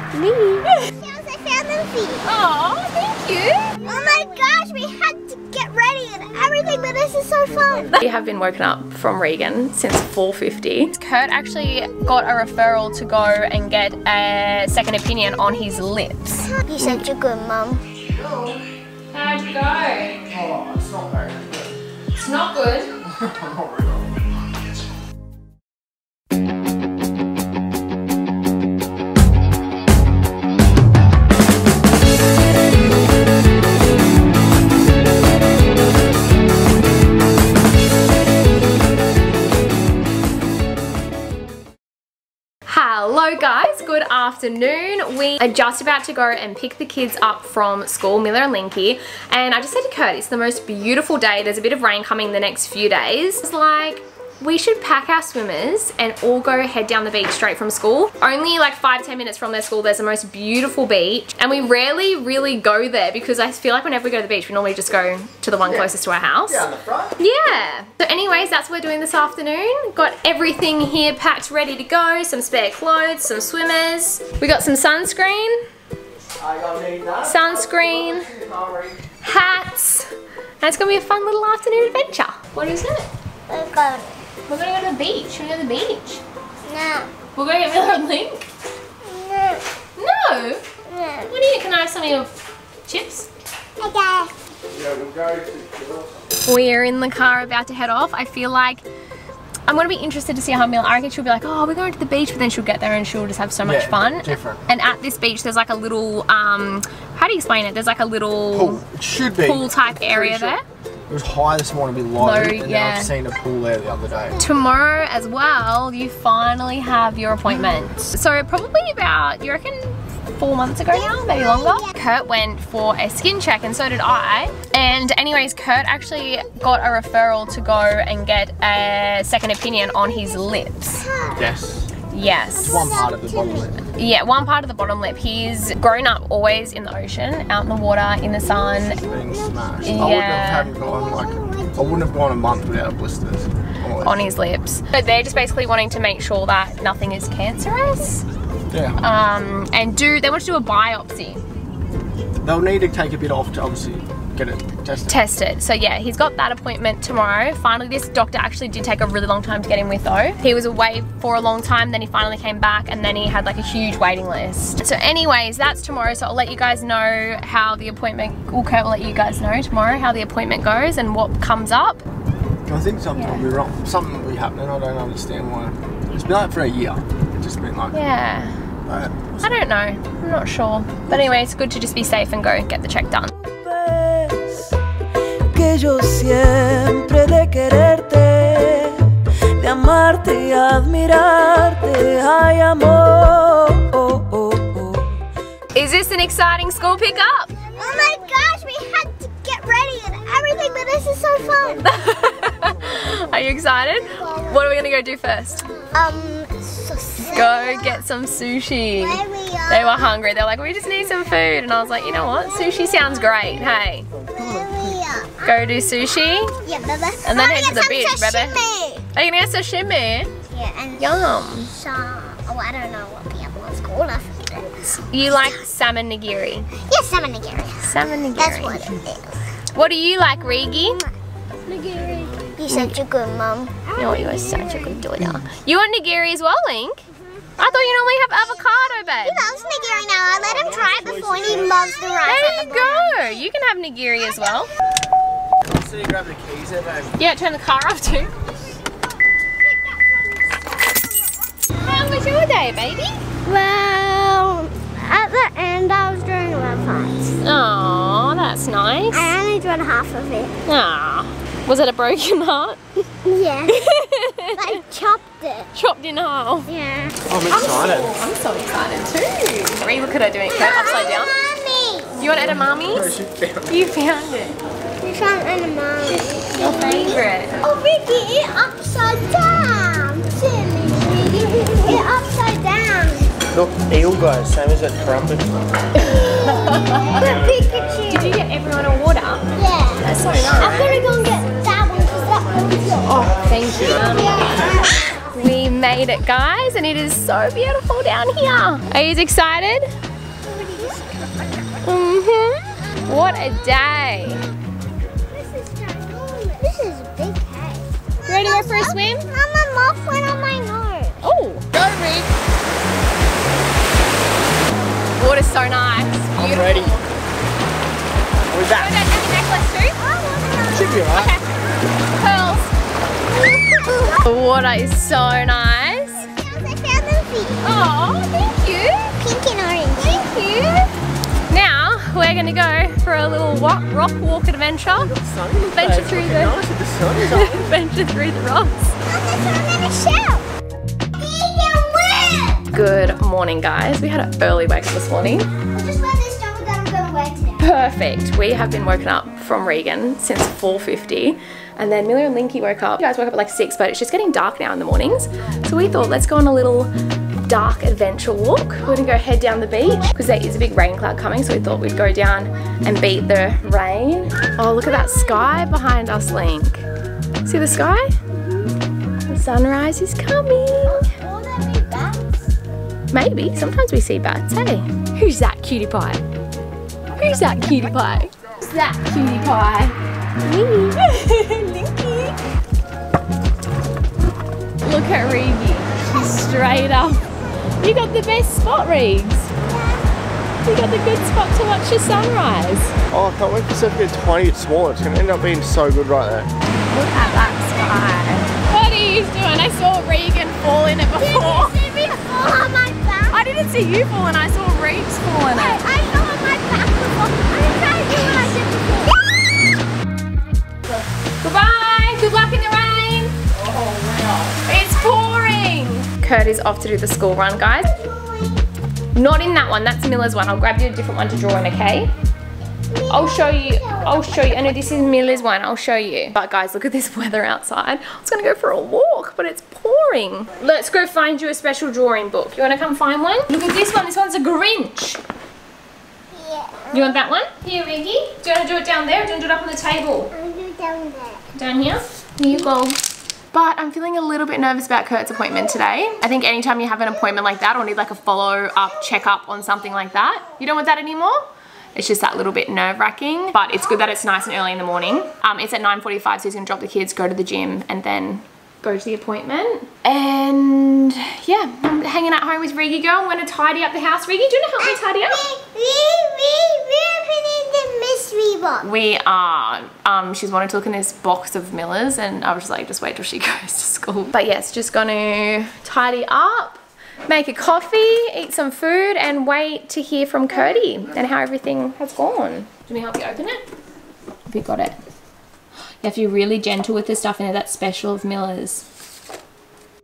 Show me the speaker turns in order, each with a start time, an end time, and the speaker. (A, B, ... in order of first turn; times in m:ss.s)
0:00.2-0:02.2 A
0:02.2-0:03.7 B
0:03.8-0:08.0 A
0:08.0-0:17.0 B
0:16.6-0:17.8 A
0:18.2-0:18.6 C
0:19.1-0:20.3 B
0:20.3-0:21.7 C
0:22.2-0:22.9 B
0:23.0-0:24.2 C
0:42.7-1:06.6 B
1:05.6-1:05.9 C
1:06.5-1:07.2 C
1:07.2-1:15.6 B
1:16.4-1:19.0 C
1:17.2-1:18.3 B
1:19.2-1:20.1 B
1:20.6-1:23.1 B
1:23.5-1:24.2 A
1:24.5-1:26.2 B
1:26.7-1:27.1 A
1:27.3-1:28.4 B
1:29.0-1:29.6 A
1:30.0-1:30.6 B
1:30.9-1:31.3 A
1:31.3-1:33.3 B
1:33.8-1:34.4 A
1:34.7-1:36.3 C
1:36.4-1:38.9 B
1:39.7-1:48.8 B
1:43.6-1:44.7 C
1:48.5-1:54.4 C
1:49.4-1:50.6 B
1:52.2-1:53.2 B
1:54.4-2:11.1 B
1:57.5-1:57.8 C
2:00.9-2:01.9 A
2:10.0-2:11.5 A
2:11.4-2:11.9 C
2:12.1-2:12.9 B
2:12.6-2:13.8 C
2:12.6-2:13.8 A
2:13.9-2:19.0 B
2:18.5-2:20.2 A
2:19.0-2:24.3 C
2:19.8-2:20.7 B
2:20.8-2:22.1 A
2:24.0-2:28.2 B
2:28.7-2:29.0 C
2:29.0-2:31.4 B
2:32.4-2:35.1 C
2:35.1-2:52.0 B
2:52.7-2:58.0 C
2:53.1-2:53.4 B
2:57.9-2:58.6 B
2:58.9-2:59.5 C
2:59.4-3:03.3 B
3:03.4-3:04.8 D
3:05.5-3:15.1 D
3:15.7-3:17.5 B
3:17.6-3:21.8 A
3:21.4-3:21.9 C
3:21.8-3:25.7 B
3:22.6-3:23.2 C
3:25.9-3:28.0 A
3:27.2-3:34.1 B
3:29.0-3:30.1 A
3:34.4-3:34.8 C
3:34.4-3:35.5 A
3:35.4-3:36.6 B
3:36.4-3:39.0 A
3:37.2-3:40.3 B
3:40.5-3:45.5 A
3:41.0-3:41.7 B
3:44.9-3:46.7 B
3:46.8-3:49.4 A
3:47.8-3:48.9 B
3:49.7-3:51.0 B
3:51.7-3:55.0 A
3:52.0-3:52.6 C
3:52.7-3:53.0 B
3:54.0-3:57.0 B
3:57.6-3:59.4 B
3:59.2-4:03.3 A
4:00.5-4:02.0 C
4:02.2-4:04.7 B
4:05.6-4:07.2 C
4:07.2-4:08.3 B
4:09.7-4:10.2 A
4:11.8-4:13.2 B
4:13.4-4:17.4 A
4:17.4-4:19.3 B
4:19.1-4:20.6 A
4:20.7-4:22.8 B
4:23.2-4:23.8 A
4:23.7-4:24.8 B
4:24.6-4:25.7 A
4:25.7-4:26.7 B
4:26.7-4:27.2 A
4:27.3-4:28.2 C
4:27.5-4:31.3 B
4:30.5-4:32.2 A
4:32.2-4:33.2 B
4:32.4-4:33.8 C
4:33.7-4:34.6 B
4:35.0-4:43.4 A
4:36.5-4:37.6 B
4:43.5-4:45.5 C
4:46.1-4:48.4 A
4:46.1-4:47.4 B
4:48.1-4:49.4 B
4:49.6-4:53.3 A
4:50.0-4:51.1 B
4:53.0-4:59.9 B
4:53.8-4:54.1 C
4:54.0-4:55.2 A
5:00.4-5:01.3 A
5:01.8-5:04.4 B
5:05.3-5:11.2 A
5:08.3-5:09.3 B
5:11.2-5:11.7 B
5:11.7-5:12.3 C
5:15.2-5:17.1 B
5:16.4-5:17.0 C
5:18.5-5:19.0 C
5:18.7-5:20.0 B
5:20.0-5:21.0 A
5:20.7-5:21.4 C
5:21.1-5:21.4 B
5:22.2-5:22.7 B
5:23.3-5:24.2 A
5:24.2-5:26.3 B
5:26.2-5:27.6 A
5:27.6-5:29.1 B
5:29.2-5:30.2 A
5:30.0-5:30.9 B
5:31.5-5:35.1 B
5:34.9-5:37.8 C
5:35.7-5:36.6 B
5:37.3-5:38.9 B
5:39.1-5:40.5 A
5:41.2-5:42.6 A
5:42.7-5:45.5 B
5:45.5-5:47.6 A
5:47.6-5:56.9 B
5:57.5-6:06.9 B
6:07.4-6:08.1 B
6:09.3-6:11.0 B
6:10.9-6:12.5 A
6:13.1-6:16.2 B
6:17.2-6:22.4 B
6:24.8-6:29.5 B
6:30.6-6:33.0 B
6:33.1-6:36.5 C
6:36.9-6:41.8 B
6:41.2-6:43.4 A
6:43.3-6:45.8 B
6:45.5-6:49.4 A
6:50.9-6:53.4 B
6:53.5-6:54.6 C
6:54.6-6:58.0 B
6:57.9-6:58.6 A
6:59.2-7:02.1 B
7:02.9-7:05.3 A
7:03.1-7:15.2 B
7:16.3-7:17.2 A
7:16.9-7:20.3 B
7:20.3-7:21.4 A
7:21.5-7:23.0 B
7:23.5-7:31.4 B
7:32.0-7:45.4 B
7:44.8-7:48.9 A
7:48.8-8:03.6 B
8:04.5-8:05.0 B
8:06.0-8:08.9 B